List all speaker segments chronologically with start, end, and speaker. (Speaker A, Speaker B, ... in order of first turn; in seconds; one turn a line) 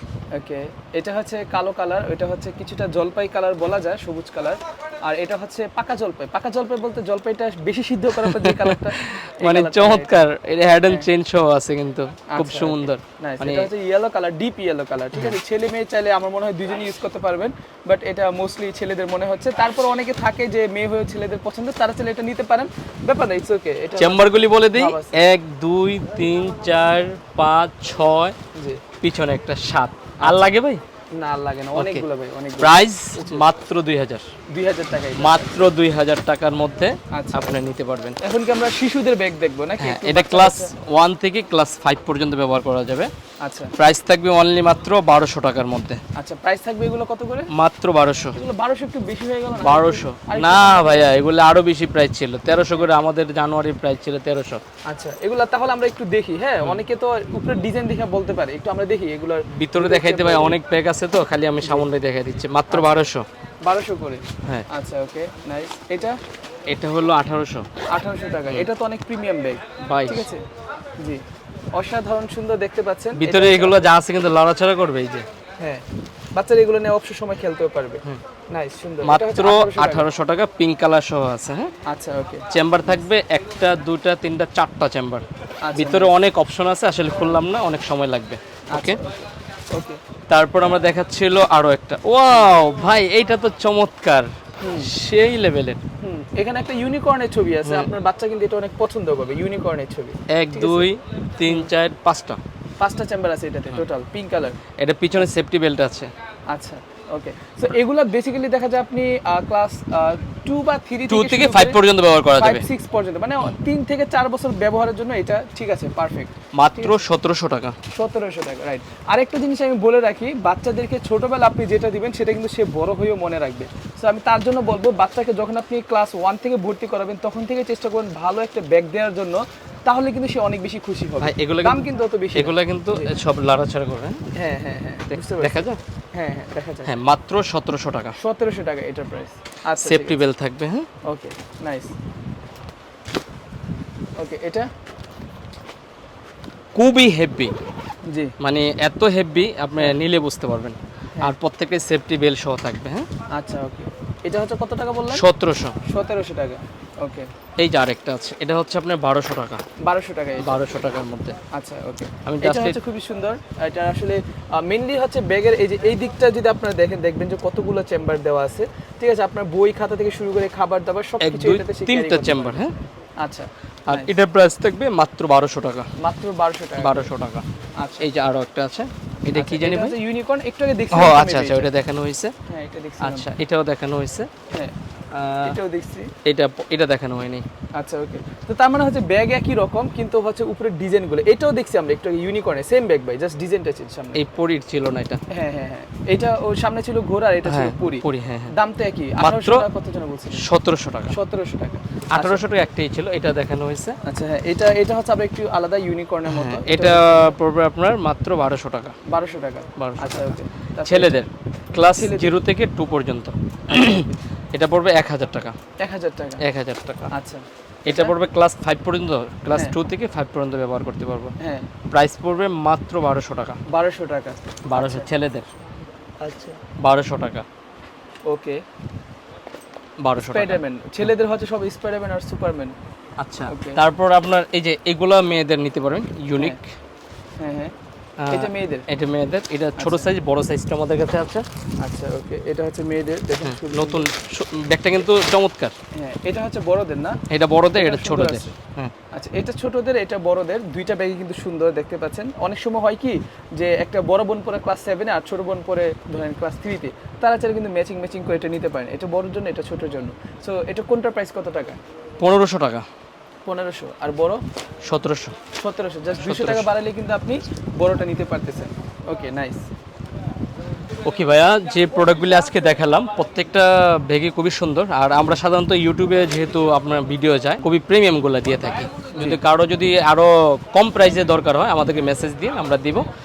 Speaker A: 0.3-10.2
Speaker B: 8.2-13.7
Speaker A: 12.3-25.1
Speaker B: 23.9-28.4
Speaker A: 28.6-28.8
Speaker B: 29.0-30.8
Speaker A: 30.2-30.5
Speaker A: 31.1-33.4
Speaker B: 31.8-32.0
Speaker B: 32.6-34.2
Speaker A: 34.5-35.6
Speaker B: 35.1-38.2
Speaker A: 37.1-37.6
Speaker A: 38.2-40.7
Speaker B: 39.8-43.1
Speaker A: 43.4-43.7
Speaker B: 43.8-46.0
Speaker A: 46.1-47.5
Speaker B: 47.5-48.4
Speaker A: 48.3-51.1
Speaker B: 49.6-54.6
Speaker A: 54.9-60.6
Speaker B: 59.5-63.2
Speaker A: 61.6-61.9
Speaker A: 62.7-63.0
Speaker A: 63.6-66.2
Speaker B: 66.7-67.7
Speaker A: 67.9-70.5
Speaker B: 69.8-70.3
Speaker A: 71.7-73.8
Speaker B: 73.2-75.2
Speaker A: 76.3-80.1
Speaker B: 79.0-81.7
Speaker A: 81.8-83.0
Speaker B: 82.5-85.2
Speaker A: 85.6-86.1
Speaker B: 85.7-89.0
Speaker A: 88.7-89.1
Speaker A: 89.7-90.0
Speaker B: 90.3-95.8
Speaker A: 94.6-94.9
Speaker A: 96.0-100.9
Speaker B: 100.3-102.4
Speaker A: 102.8-104.6
Speaker B: 104.8-106.1
Speaker A: 106.5-111.8
Speaker B: 111.1-112.6
Speaker A: 112.3-117.0
Speaker B: 116.5-117.7
Speaker A: 117.9-133.1
Speaker B: 131.2-134.2
Speaker A: 134.3-136.9
Speaker B: 135.1-135.8
Speaker B: 136.8-138.2
Speaker A: 138.2-140.2
Speaker B: 139.8-140.9
Speaker A: 141.1-141.9
Speaker A: 144.2-144.7
Speaker B: 146.7-147.5
Speaker A: 148.1-148.3
Speaker B: 148.4-153.1
Speaker A: 153.3-155.2
Speaker B: 155.1-155.8
Speaker A: 155.9-157.3
Speaker B: 157.6-159.6
Speaker A: 159.8-160.7
Speaker B: 160.4-161.4
Speaker A: 161.5-172.6
Speaker B: 162.2-162.8
Speaker B: 171.2-172.7
Speaker A: 173.2-174.1
Speaker B: 173.9-175.9
Speaker A: 176.0-177.1
Speaker B: 176.8-177.4
Speaker A: 177.8-178.0
Speaker B: 178.0-179.9
Speaker A: 179.3-181.7
Speaker B: 180.9-182.3
Speaker A: 182.5-183.3
Speaker B: 183.0-184.3
Speaker B: 185.1-185.6
Speaker A: 185.4-186.1
Speaker B: 186.2-187.4
Speaker A: 187.8-194.2
Speaker B: 194.1-195.2
Speaker A: 195.3-200.5
Speaker B: 197.4-198.5
Speaker B: 199.2-199.6
Speaker B: 200.3-201.2
Speaker A: 201.1-202.4
Speaker B: 202.1-204.0
Speaker A: 204.0-207.3
Speaker B: 206.3-208.9
Speaker A: 209.1-211.2
Speaker B: 209.8-215.6
Speaker A: 211.9-212.3
Speaker A: 213.7-214.1
Speaker A: 215.8-216.4
Speaker B: 216.4-217.1
Speaker A: 217.1-218.1
Speaker B: 217.8-221.3
Speaker A: 221.4-221.7
Speaker B: 221.9-223.6
Speaker A: 223.7-225.1
Speaker B: 224.7-225.5
Speaker A: 226.2-226.6
Speaker B: 226.8-227.4
Speaker A: 228.3-228.6
Speaker B: 230.0-230.6
Speaker A: 230.2-232.8
Speaker B: 233.2-236.6
Speaker A: 233.5-233.8
Speaker A: 237.4-237.7
Speaker B: 238.2-241.4
Speaker A: 238.3-238.9
Speaker A: 239.8-240.1
Speaker A: 241.8-244.1
Speaker B: 243.4-245.7
Speaker A: 245.9-247.2
Speaker B: 247.3-248.9
Speaker A: 247.7-248.5
Speaker A: 249.1-261.8
Speaker B: 262.2-262.9
Speaker A: 263.4-264.4
Speaker B: 264.8-265.3
Speaker A: 265.6-269.6
Speaker B: 266.2-266.7
Speaker B: 271.0-283.1